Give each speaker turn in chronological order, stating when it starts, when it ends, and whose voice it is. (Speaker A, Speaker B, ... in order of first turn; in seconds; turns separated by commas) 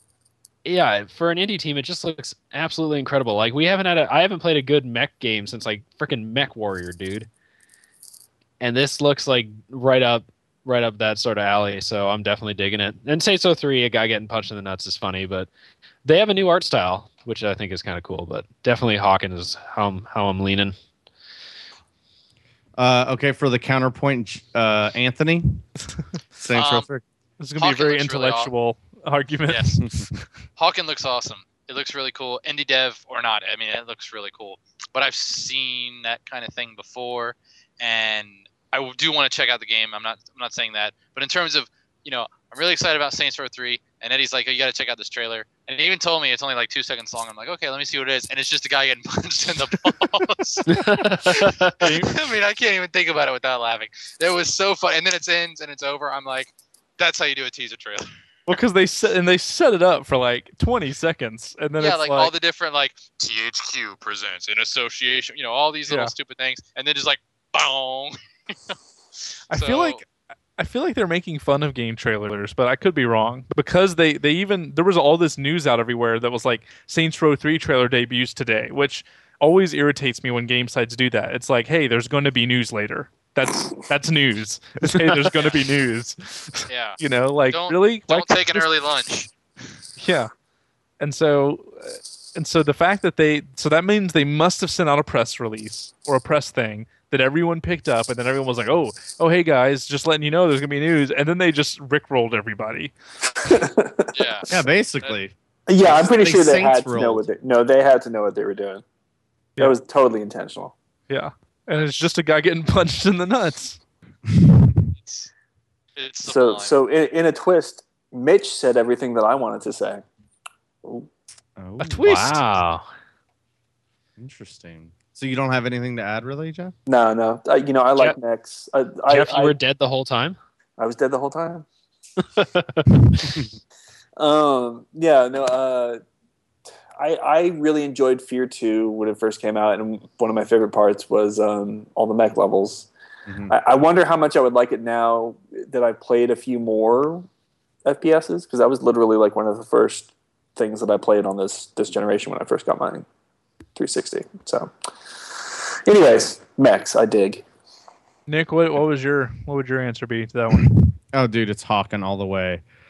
Speaker A: 0.7-7.3, Speaker A: 8.6-15.5, Speaker A: 16.0-20.8, Speaker B: 22.8-25.6, Speaker B: 26.4-27.0, Speaker C: 26.5-26.9, Speaker D: 27.4-30.3, Speaker C: 27.6-28.5, Speaker C: 29.5-29.8, Speaker B: 29.8-30.1, Speaker C: 30.6-50.7, Speaker A: 50.7-51.9, Speaker C: 51.3-58.1, Speaker D: 51.8-52.2, Speaker D: 58.5-62.3, Speaker C: 61.8-68.8, Speaker D: 65.9-66.1, Speaker C: 69.5-70.0, Speaker D: 69.5-88.7, Speaker C: 85.3-85.7, Speaker C: 86.7-89.3, Speaker D: 90.0-90.3, Speaker D: 91.0-102.9, Speaker E: 103.4-104.1, Speaker C: 104.1-104.5, Speaker B: 104.5-107.3, Speaker E: 105.7-108.8, Speaker E: 109.6-110.7, Speaker D: 111.1-113.8, Speaker C: 115.0-115.3, Speaker C: 116.0-116.8, Speaker E: 116.2-120.0, Speaker E: 120.8-121.1, Speaker B: 121.6-122.4, Speaker A: 121.8-122.8, Speaker B: 124.2-126.8, Speaker E: 126.9-129.6, Speaker A: 129.1-130.4, Speaker E: 130.8-131.7, Speaker A: 132.2-133.4, Speaker B: 133.2-133.5, Speaker E: 134.2-136.0, Speaker E: 137.0-142.9, Speaker B: 143.3-143.5, Speaker E: 143.5-147.3, Speaker E: 147.8-153.1, Speaker E: 153.8-154.7, Speaker E: 155.4-157.4, Speaker D: 158.3-160.8, Speaker B: 161.1-162.6